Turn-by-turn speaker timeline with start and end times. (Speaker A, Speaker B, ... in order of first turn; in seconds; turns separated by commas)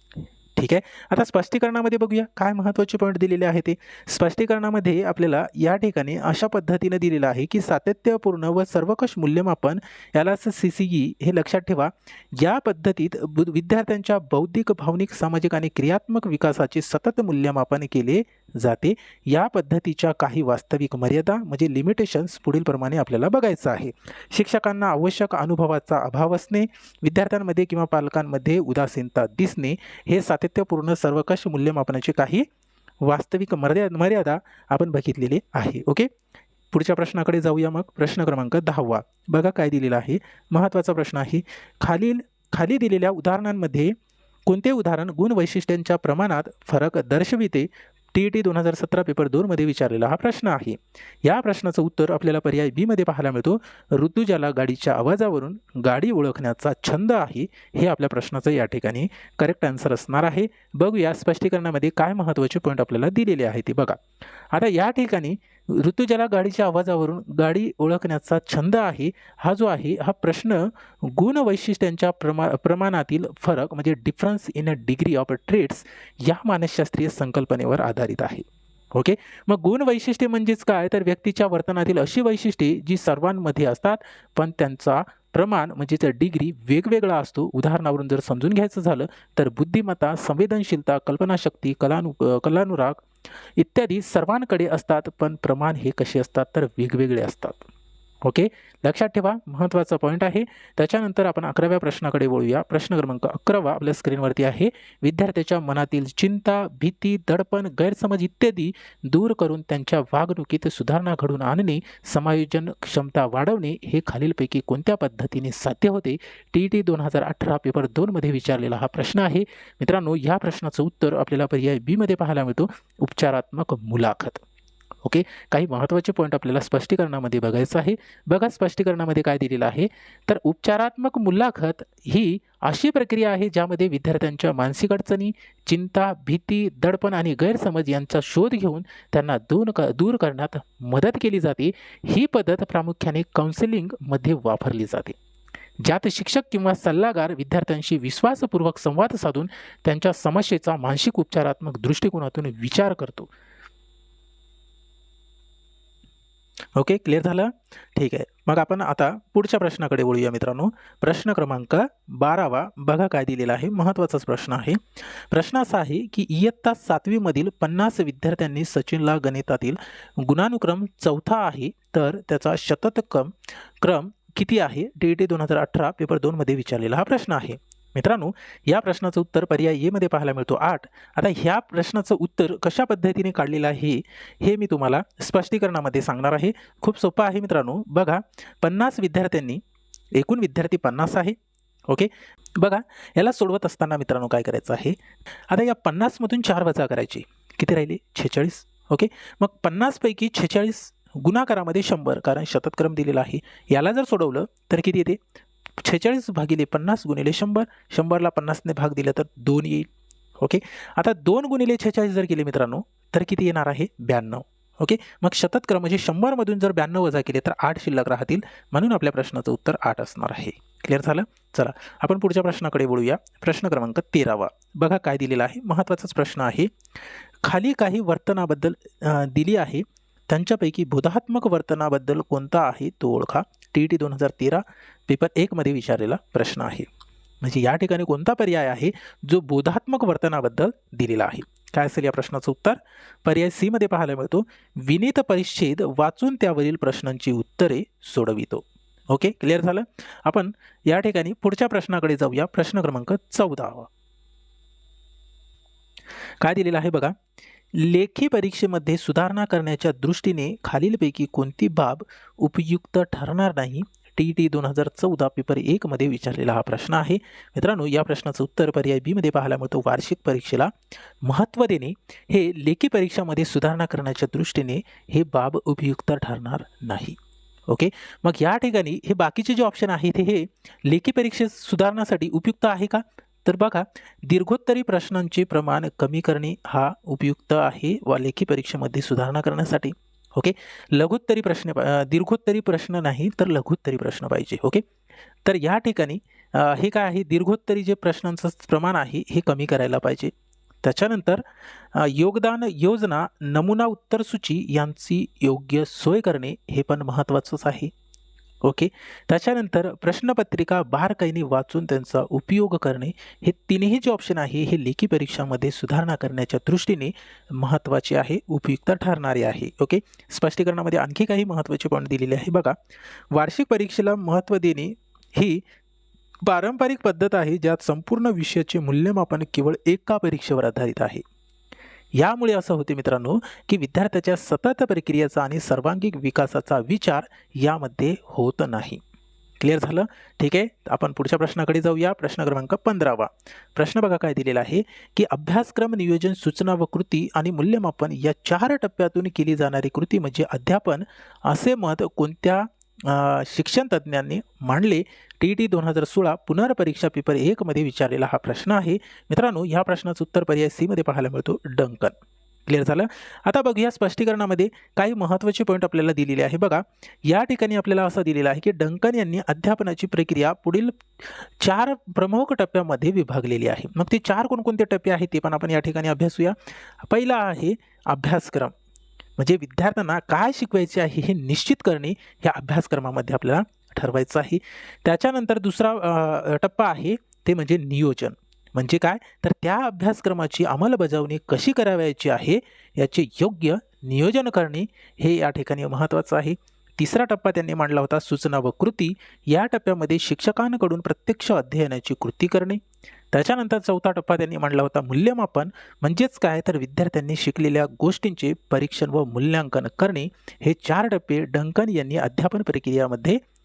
Speaker A: 0.6-32.5, Speaker A: 33.0-36.1, Speaker A: 36.7-43.9, Speaker A: 44.5-93.0, Speaker A: 93.6-97.7, Speaker A: 98.2-124.4, Speaker A: 125.0-145.2, Speaker A: 145.8-153.3, Speaker A: 156.8-189.6, Speaker A: 190.2-191.4, Speaker A: 191.9-195.0, Speaker A: 195.5-205.2, Speaker A: 205.8-209.9, Speaker A: 210.4-226.7, Speaker A: 227.4-236.9, Speaker A: 237.4-253.9, Speaker A: 256.4-257.1, Speaker A: 257.7-270.7, Speaker A: 271.2-294.8, Speaker A: 295.4-301.4, Speaker A: 301.9-307.9, Speaker A: 308.6-322.8, Speaker A: 323.3-325.6, Speaker A: 326.4-331.2, Speaker A: 332.2-339.0, Speaker A: 339.6-362.1, Speaker A: 362.7-378.7, Speaker A: 379.4-402.8, Speaker A: 403.3-413.4